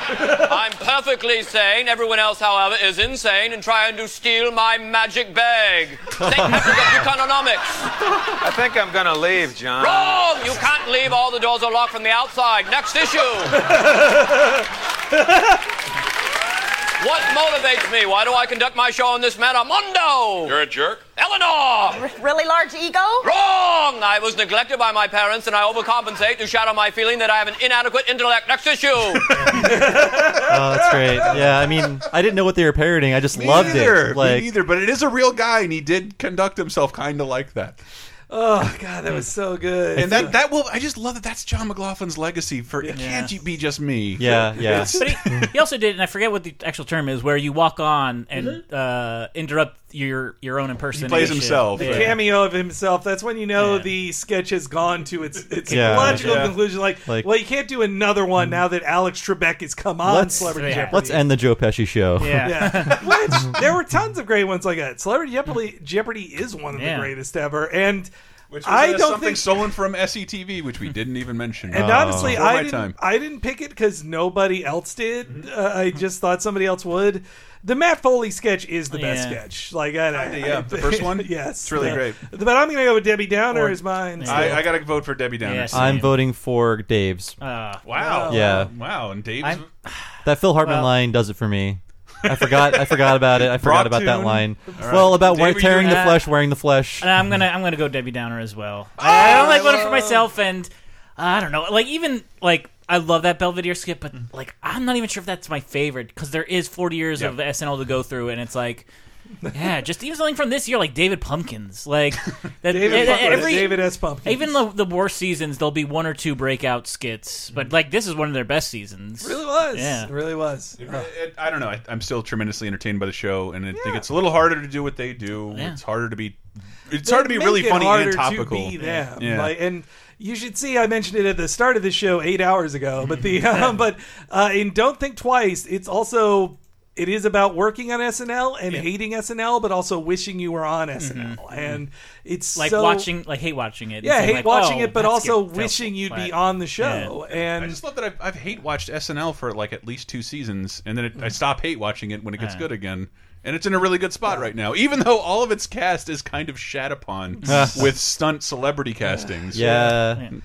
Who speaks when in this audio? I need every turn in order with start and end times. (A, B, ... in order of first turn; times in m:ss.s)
0:00.4-0:07.7 A
0:08.4-0:10.4 B
0:09.8-0:13.6 A
0:13.6-0:14.7 C
0:17.0-0:20.6 A
0:21.2-0:22.0 A
0:23.2-0:29.4 A
0:29.4-0:31.3 C
0:30.4-0:34.5 D
0:33.3-0:37.8 E
0:38.3-0:40.4 C
0:40.0-0:45.0 E
0:42.9-0:43.3 F
0:44.2-0:45.4 D
0:44.7-0:52.2 F
0:50.9-0:52.1 E
0:51.8-1:01.2 C
0:53.5-0:53.9 F
0:55.7-0:57.3 D
0:55.9-0:56.6 E
1:00.0-1:02.8 D
1:00.4-1:01.0 F
1:02.2-1:03.2 F
1:02.4-1:08.1 C
1:06.7-1:07.1 F
1:08.5-1:13.0 E
1:08.6-1:09.4 C
1:11.7-1:24.6 C
1:11.7-1:12.4 D
1:18.9-1:19.4 F
1:20.1-1:22.2 E
1:23.5-1:24.7 F
1:24.2-1:26.0 E
1:25.4-1:26.2 F
1:25.7-1:27.4 D
1:27.4-1:27.8 F
1:27.8-1:29.6 E
1:27.9-1:28.6 C
1:28.3-1:28.7 D
1:29.4-1:30.9 F
1:30.2-1:37.1 D
1:32.3-1:36.1 E
1:35.6-1:36.2 F
1:37.0-1:48.9 F
1:39.0-1:39.8 E
1:39.1-1:40.2 C
1:49.5-2:00.1 F
1:52.7-1:54.6 C
1:52.8-1:53.6 E
1:59.2-2:01.1 C
2:00.8-2:09.5 E
2:03.7-2:04.1 C
2:07.0-2:23.1 C
2:08.8-2:09.0 F
2:13.0-2:13.8 F
2:21.0-2:21.8 F
2:22.5-2:27.2 F
2:24.0-2:27.8 C
2:27.3-2:40.4 E
2:32.4-2:32.6 F
2:37.4-2:37.7 F
2:37.4-2:37.9 D
2:39.0-2:40.0 C
2:39.5-2:40.2 D